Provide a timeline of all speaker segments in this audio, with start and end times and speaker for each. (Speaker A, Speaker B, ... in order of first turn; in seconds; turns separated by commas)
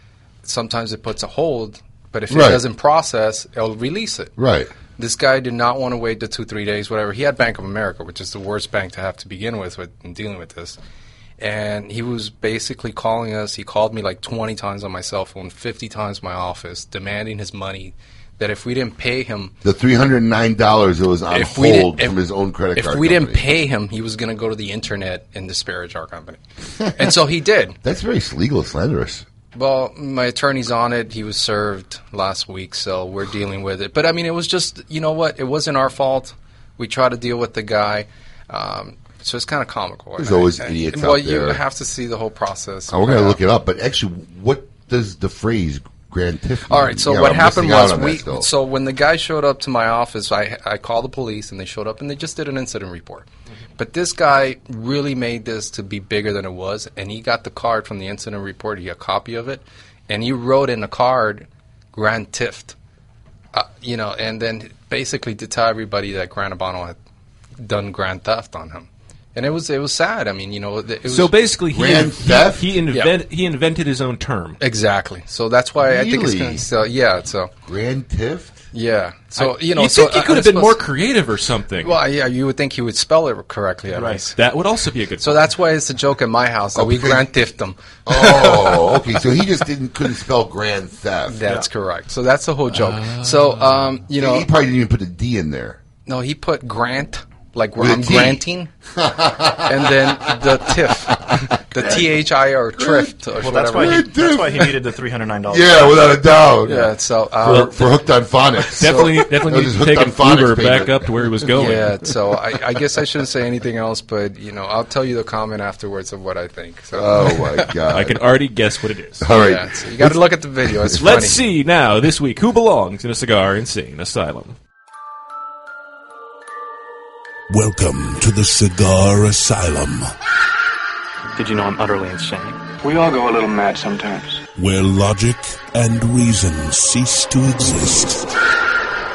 Speaker A: 0.4-4.3, Speaker B: 2.3-2.6, Speaker B: 4.4-4.7, Speaker A: 5.0-10.8, Speaker A: 11.4-19.5, Speaker B: 19.6-23.6, Speaker A: 21.3-22.2, Speaker A: 22.8-26.4, Speaker B: 26.8-27.3, Speaker A: 27.0-27.8, Speaker B: 27.8-29.2, Speaker A: 29.5-43.4, Speaker B: 40.2-41.6, Speaker B: 42.9-48.5, Speaker A: 46.7-62.8, Speaker A: 63.5-67.0, Speaker A: 67.6-71.3, Speaker C: 71.1-74.6, Speaker B: 71.7-72.7, Speaker A: 74.6-77.5, Speaker B: 75.8-76.7, Speaker B: 77.7-78.6, Speaker A: 78.7-80.8, Speaker C: 79.4-82.0, Speaker A: 81.8-84.4, Speaker C: 84.3-85.6, Speaker A: 85.2-89.0, Speaker B: 86.8-87.3, Speaker B: 88.1-91.4, Speaker A: 91.3-94.5, Speaker C: 92.9-93.8, Speaker B: 94.1-95.8, Speaker A: 96.1-98.7, Speaker B: 97.8-98.4, Speaker B: 98.9-100.3, Speaker A: 99.7-104.1, Speaker B: 101.3-102.2, Speaker B: 102.8-104.7, Speaker D: 103.4-106.1, Speaker B: 105.5-111.3, Speaker A: 106.7-108.0, Speaker C: 107.5-107.7, Speaker C: 108.7-111.9, Speaker A: 111.6-117.7, Speaker B: 116.9-118.2, Speaker C: 117.9-119.3, Speaker B: 119.2-121.0, Speaker A: 119.3-121.4, Speaker C: 121.0-124.6, Speaker E: 127.5-130.1, Speaker F: 131.4-134.4, Speaker E: 134.6-138.2